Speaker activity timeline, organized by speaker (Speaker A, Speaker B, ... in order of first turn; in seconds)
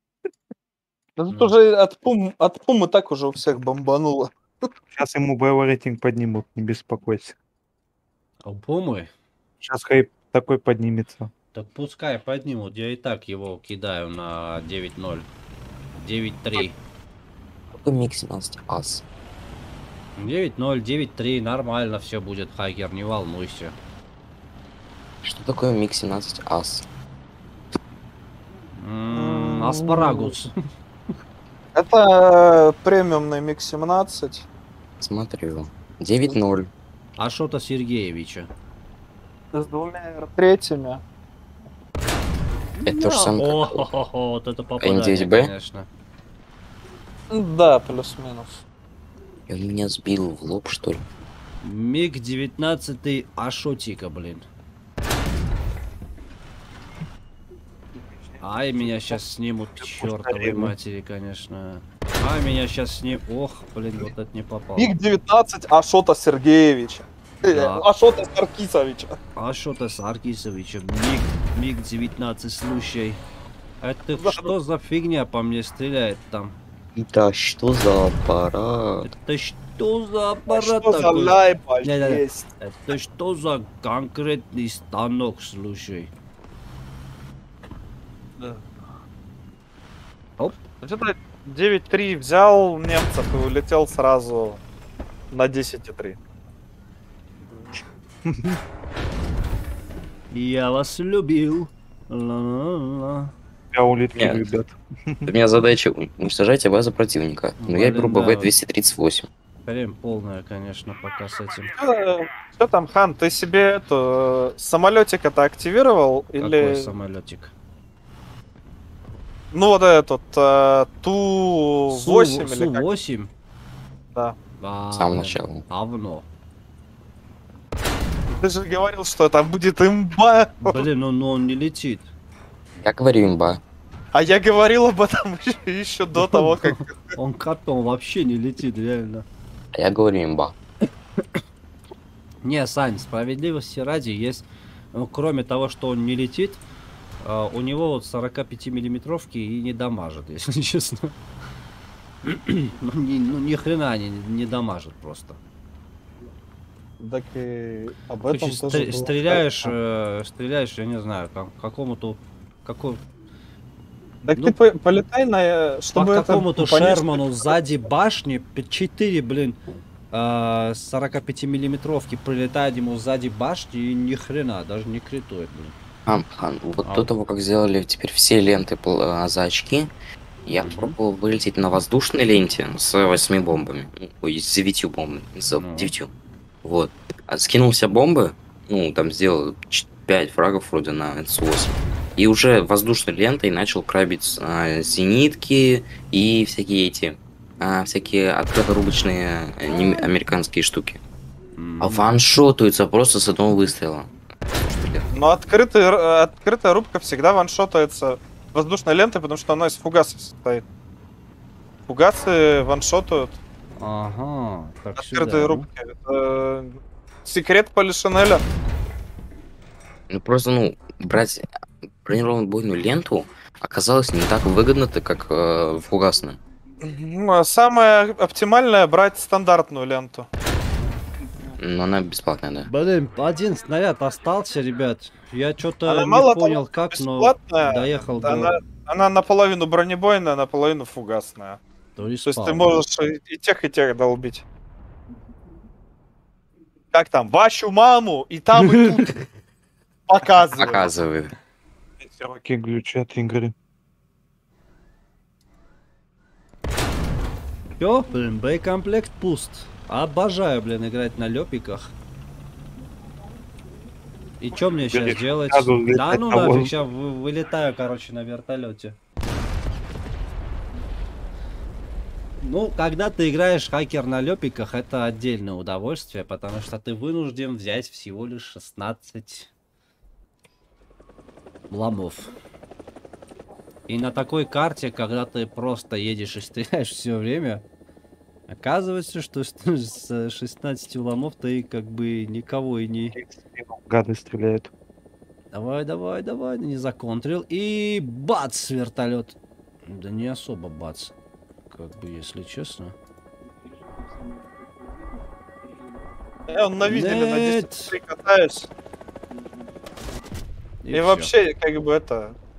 Speaker A: 1.2-4.7, 29.1-30.3, 31.8-34.5, 39.5-41.0, 47.3-48.6, 64.8-69.2, 74.2-74.5, 80.5-82.5, 90.8-94.6, 95.3-96.2, 111.8-116.9, 119.5-122.9, 128.4-130.9, 134.1-137.1, 157.0-159.7, 164.2-167.5, 205.1-210.6, 211.9-213.4, 215.0-218.4, 226.8-230.3, 235.9-241.6, 242.3-244.4, 246.9-249.2, 250.1-250.9, 306.5-308.7, 310.9-312.4
Speaker B: 1.3-1.6, 8.4-9.1, 11.5-15.3, 15.9-16.8, 20.2-23.8, 28.8-30.5, 37.2-38.5, 42.8-45.9, 51.6-54.5, 58.4-64.9, 67.5-67.8, 69.4-73.2, 73.8-76.6, 79.0-86.1, 100.3-103.3, 107.6-108.5, 109.7-111.7, 116.4-117.5, 121.9-123.3, 124.6-126.3, 130.6-132.1, 136.2-139.2, 142.4-146.6, 147.2-151.2, 152.2-155.4, 158.3-163.0, 165.9-169.6, 170.1-175.8, 180.6-181.0, 185.6-185.9, 201.6-202.1, 213.8-215.7, 232.7-238.5, 242.0-242.8, 248.7-249.0, 257.8-261.9, 264.4-269.0, 272.4-279.5, 281.7-282.3, 283.9-287.6, 288.5-293.2, 295.5-301.1, 301.7-302.9, 306.9-307.9, 310.8-311.3
Speaker C: 4.9-7.4, 9.6-11.3, 59.8-60.7, 103.7-105.3, 252.0-253.5, 264.8-266.7, 293.1-294.7
Speaker D: 17.7-19.0, 25.2-26.9, 35.0-36.7, 42.8-44.0, 44.8-45.5, 49.5-51.0, 77.0-79.1, 104.2-104.4, 105.3-109.3, 124.9-125.6, 132.8-133.6, 139.7-140.6, 176.1-179.9, 180.4-186.1, 186.6-201.0, 201.8-205.1, 220.1-221.5, 222.0-226.4, 231.6-232.7, 250.6-251.3